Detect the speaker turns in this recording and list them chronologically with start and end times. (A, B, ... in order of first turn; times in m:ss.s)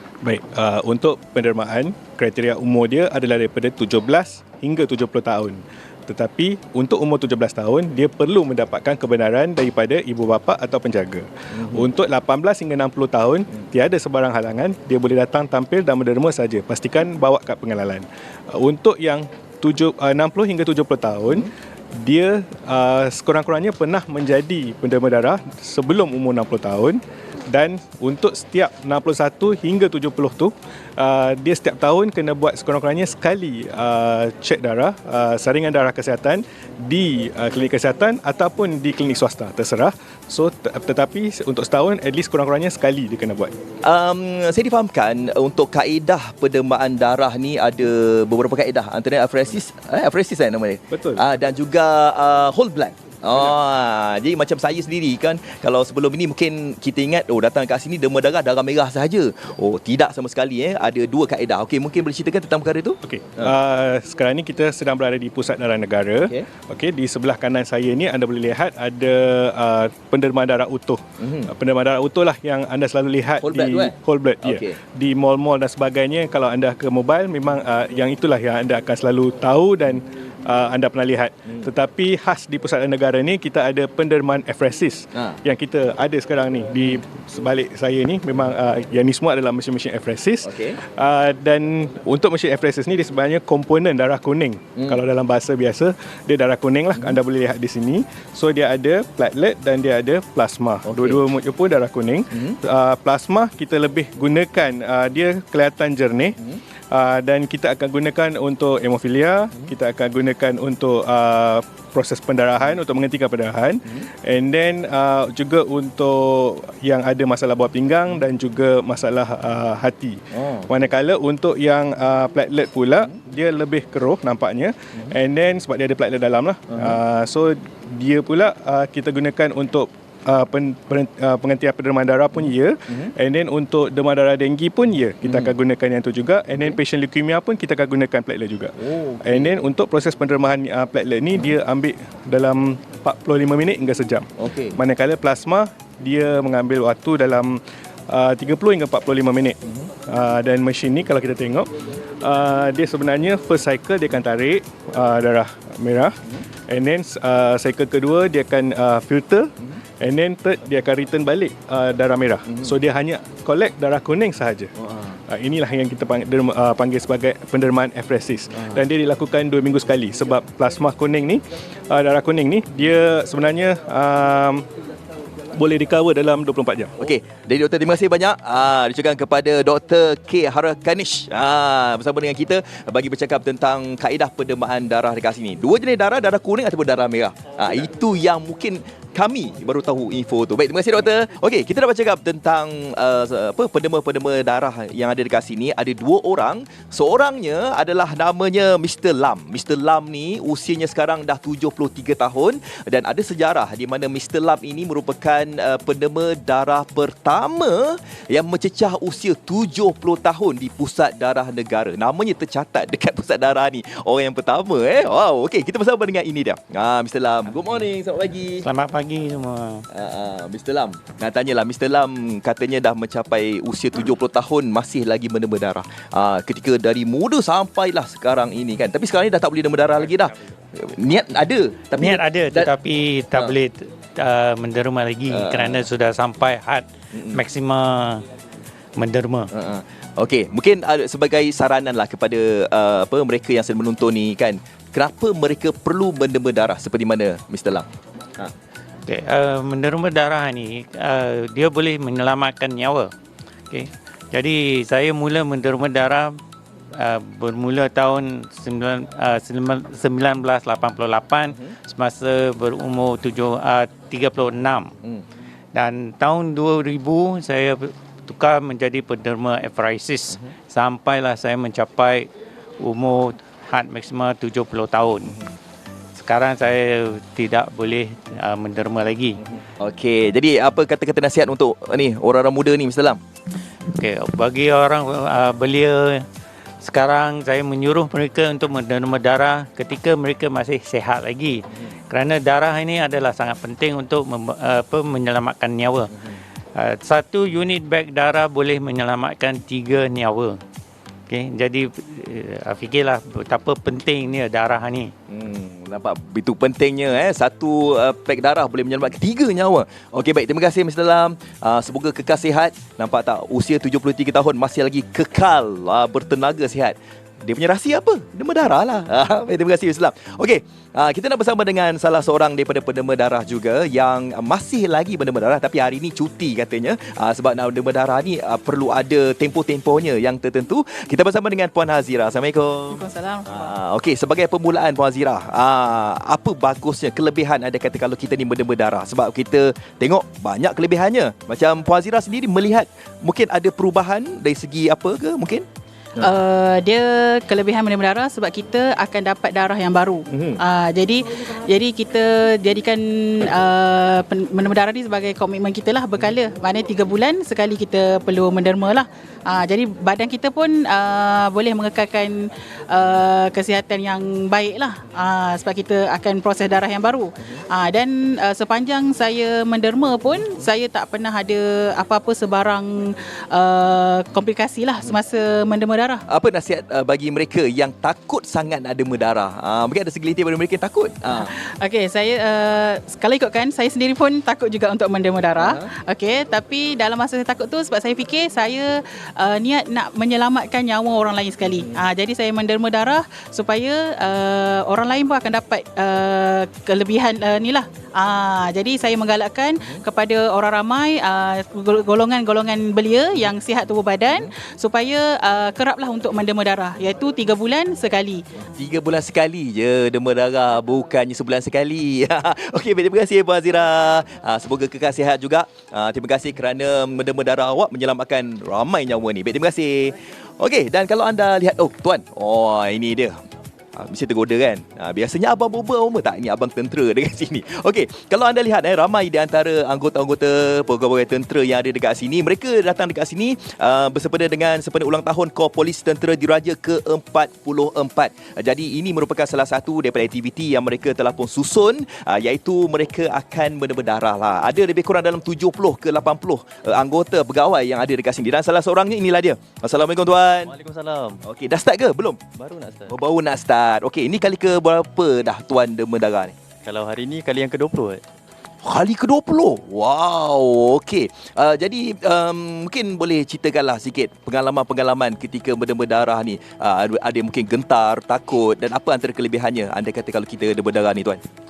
0:00.2-0:43.6 A
0:11.6-0:11.9 B
0:43.8-1:03.5 B
0:50.9-0:51.2 A
1:03.0-1:46.4 A
1:11.2-1:11.5 B
1:13.4-1:14.8 B
1:30.4-1:30.8 B
1:40.9-1:41.2 B
1:42.3-1:42.6 B
1:46.9-2:31.7 A
2:00.4-2:00.7 B
2:06.7-2:07.0 B
2:15.2-2:15.5 B
2:18.8-2:19.6 B
2:24.4-2:24.8 B
2:32.2-2:36.2 A
2:36.7-2:44.7 A
2:44.8-2:45.2 B
2:45.3-2:54.6 A
2:55.5-2:57.0 A
2:57.0-3:38.6 B
3:38.6-3:39.8 C
3:39.9-3:52.7 B
3:51.9-3:58.2 C
3:55.3-3:55.9 B
3:57.1-3:57.4 B
3:59.0-3:59.5 C
3:59.5-4:08.5 B
4:09.1-4:13.1 C
4:13.7-4:16.4 C
4:16.9-4:24.9 C
4:25.7-4:32.3 C
4:32.8-4:35.4 C
4:36.2-4:39.4 C
4:39.5-4:43.2 B
4:43.9-4:46.2 C
4:46.8-4:56.1 C
4:56.8-5:00.6 C
5:01.3-5:05.1 C
5:05.3-5:46.3 B
5:32.9-5:33.7 D
5:46.2-6:16.2 D
5:50.3-5:50.6 B
6:16.3-6:21.5 B
6:21.3-6:48.4 D
6:25.6-6:25.9 B
6:48.7-7:03.4 B
7:04.0-7:30.7 B
7:30.6-7:31.4 E
7:31.4-7:32.4 B
7:32.6-7:33.2 E
7:33.1-7:36.6 B
7:36.8-7:38.2 E
7:38.8-7:51.4 B